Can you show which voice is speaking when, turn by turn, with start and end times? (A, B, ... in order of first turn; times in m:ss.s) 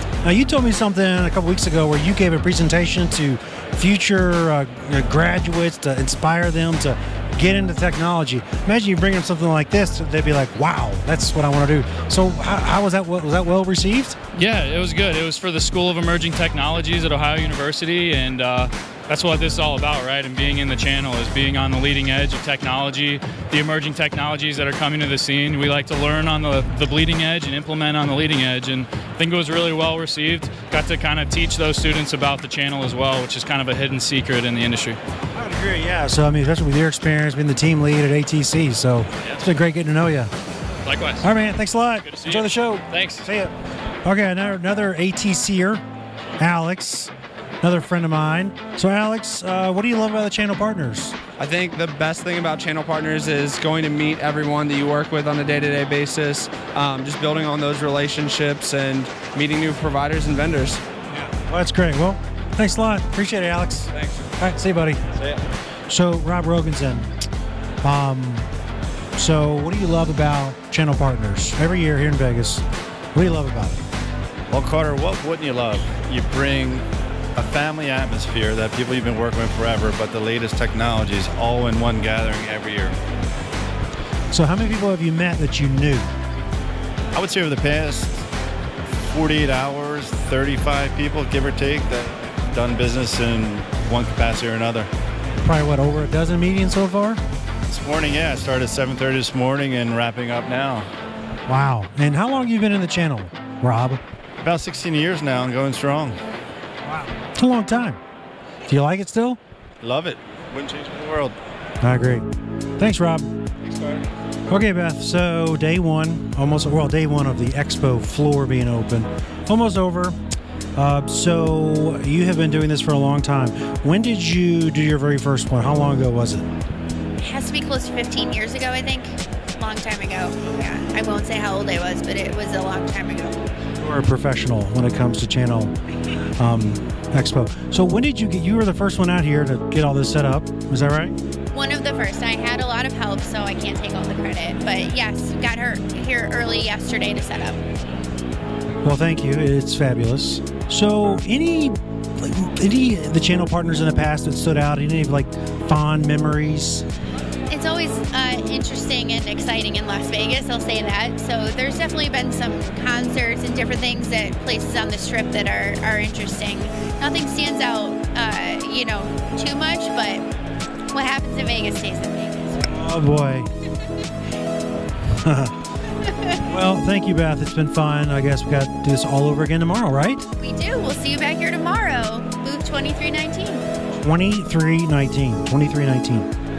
0:00.2-0:14.2 A
0:14.3-0:35.0 B
0:35.4-0:40.3 A
0:40.8-0:41.3 B
0:41.2-0:45.8 A
0:42.1-0:43.3 B
0:46.4-0:51.2 A
0:51.4-1:00.8 C
1:01.1-1:05.1 A
1:05.9-1:07.1 A
1:07.8-1:08.5 A
1:09.2-1:12.6 A
1:13.2-1:13.8 A
1:14.5-1:23.0 D
1:24.3-1:26.1 A
1:27.1-1:28.2 D
1:29.1-1:34.9 D
1:35.3-1:37.2 A
1:37.7-1:40.9 D
1:41.5-1:44.0 A
1:44.4-1:46.2 D
1:46.8-1:48.0 A
1:48.7-1:49.4 A
1:49.8-1:51.4 D
1:51.8-1:52.3 A
1:52.8-1:53.3 A
1:53.6-1:54.0 D
1:54.5-2:00.2 A
2:00.8-2:06.5 A
2:07.2-2:13.4 E
2:13.8-2:15.7 A
2:16.4-2:21.2 A
2:21.5-2:27.6 E
2:28.8-2:36.9 A
2:37.5-2:50.2 E
2:50.9-2:52.6 E
2:52.6-2:53.5 A
2:55.2-2:55.6 A
2:56.0-2:56.4 E
2:56.4-3:00.2 A
3:00.4-3:03.6 E
3:04.0-3:06.3 A